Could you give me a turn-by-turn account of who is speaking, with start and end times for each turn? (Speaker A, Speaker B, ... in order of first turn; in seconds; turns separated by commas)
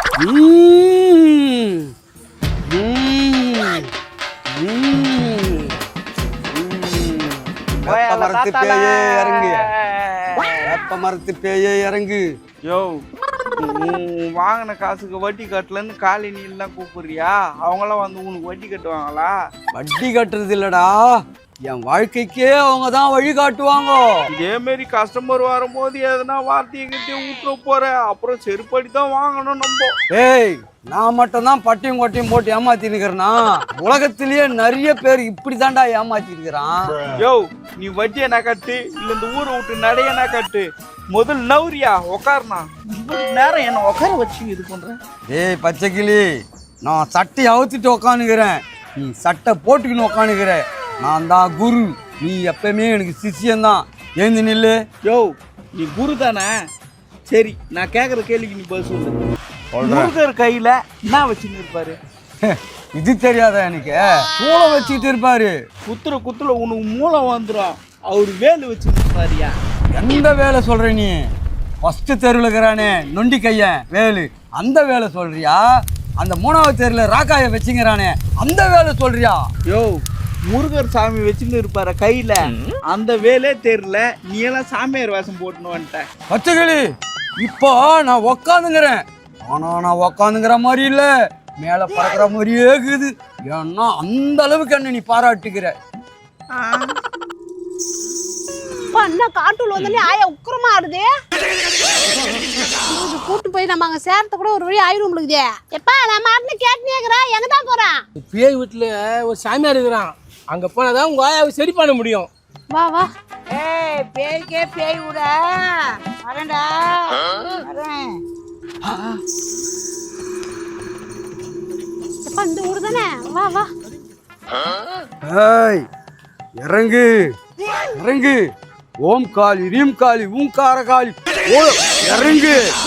Speaker A: 0.2-1.9, Speaker A: 2.7-3.9, Speaker A: 4.6-5.8, Speaker A: 6.5-9.6, Speaker B: 7.8-10.6, Speaker A: 10.7-12.2, Speaker B: 12.7-13.0, Speaker B: 13.6-19.3, Speaker A: 19.7-21.0, Speaker A: 21.7-24.0, Speaker B: 24.3-29.9, Speaker A: 30.1-36.9, Speaker B: 37.2-45.0, Speaker A: 45.3-46.2, Speaker A: 46.8-54.8, Speaker B: 55.1-56.5, Speaker B: 57.3-59.2, Speaker A: 59.8-60.1, Speaker B: 59.8-62.0, Speaker A: 62.4-65.5, Speaker B: 65.9-69.5, Speaker A: 69.9-71.2, Speaker A: 71.8-75.6, Speaker A: 76.2-79.4, Speaker B: 79.7-80.0, Speaker B: 80.5-86.0, Speaker A: 86.3-86.8, Speaker A: 87.4-91.1, Speaker A: 91.6-95.8, Speaker B: 96.6-96.9, Speaker C: 98.9-101.1, Speaker C: 102.9-108.0, Speaker D: 108.2-112.3, Speaker C: 112.7-113.1, Speaker E: 113.5-118.2, Speaker A: 118.8-119.2, Speaker C: 122.2-123.7, Speaker A: 125.2-125.8, Speaker A: 126.6-127.2, Speaker A: 128.0-128.4, Speaker A: 129.0-132.6